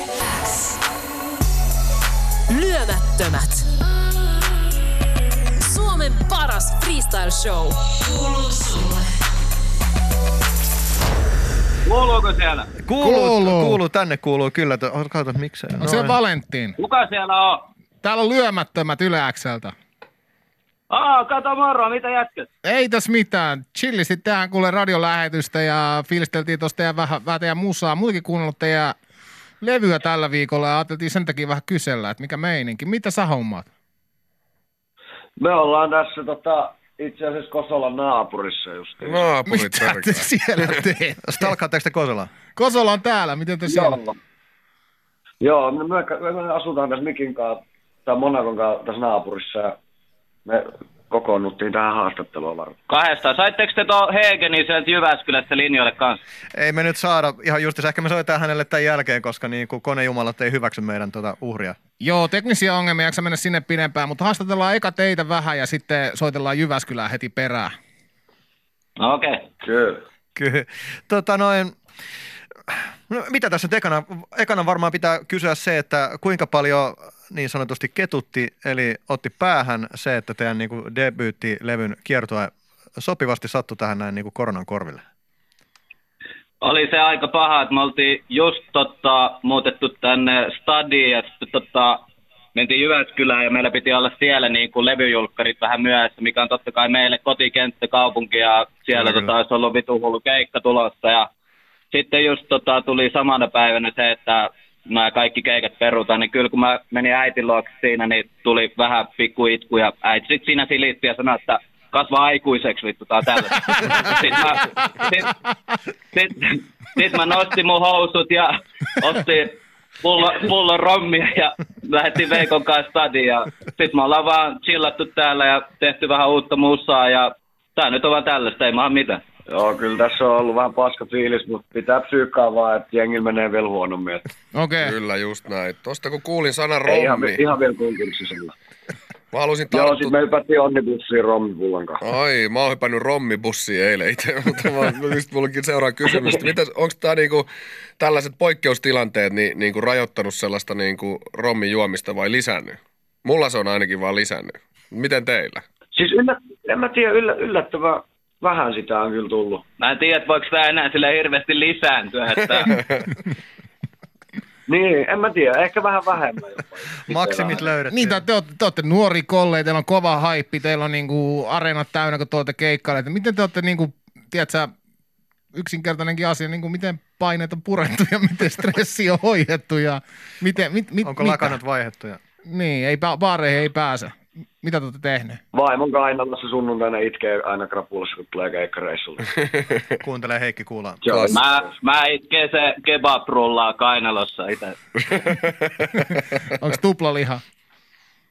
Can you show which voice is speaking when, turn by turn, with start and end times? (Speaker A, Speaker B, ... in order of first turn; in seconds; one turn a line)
Speaker A: 0.2-0.8
Speaker A: 2.5-3.7
Speaker A: 5.6-8.9
Speaker B: 11.9-12.7
Speaker C: 12.8-16.2
Speaker D: 13.0-13.8
Speaker D: 15.8-16.8
Speaker B: 16.8-17.7
Speaker D: 18.0-19.7
Speaker B: 20.9-22.5
Speaker D: 22.6-28.9
Speaker D: 29.6-33.7
Speaker E: 35.4-39.3
Speaker F: 39.0-40.3
Speaker D: 39.5-41.5
Speaker C: 41.3-42.3
Speaker D: 42.5-44.0
Speaker E: 43.7-44.1
Speaker E: 45.4-49.8
Speaker E: 50.5-52.8
Speaker B: 52.9-56.2
Speaker C: 56.5-61.8
Speaker D: 62.0-67.7
Speaker B: 69.0-69.4
Speaker E: 69.6-70.0
Speaker C: 70.4-71.8
Speaker C: 72.7-85.0
Speaker B: 86.6-92.0
Speaker B: 92.5-101.3
Speaker C: 98.9-99.3
Speaker B: 101.9-115.3
Speaker B: 116.1-129.2
Speaker E: 129.5-134.3
Speaker D: 134.5-135.0
Speaker F: 134.8-137.4
Speaker E: 136.8-138.5
Speaker F: 139.3-140.2
Speaker E: 139.7-142.0
Speaker F: 142.0-155.6
Speaker E: 155.9-159.6
Speaker B: 159.8-162.7
Speaker E: 164.7-167.7
Speaker C: 167.1-168.2
Speaker D: 167.9-174.7
Speaker D: 175.6-181.6
Speaker C: 181.0-182.2
Speaker D: 182.5-185.4
Speaker E: 185.5-189.2
Speaker C: 190.0-191.1
Speaker E: 191.0-191.6
Speaker B: 191.3-194.8
Speaker D: 196.6-197.4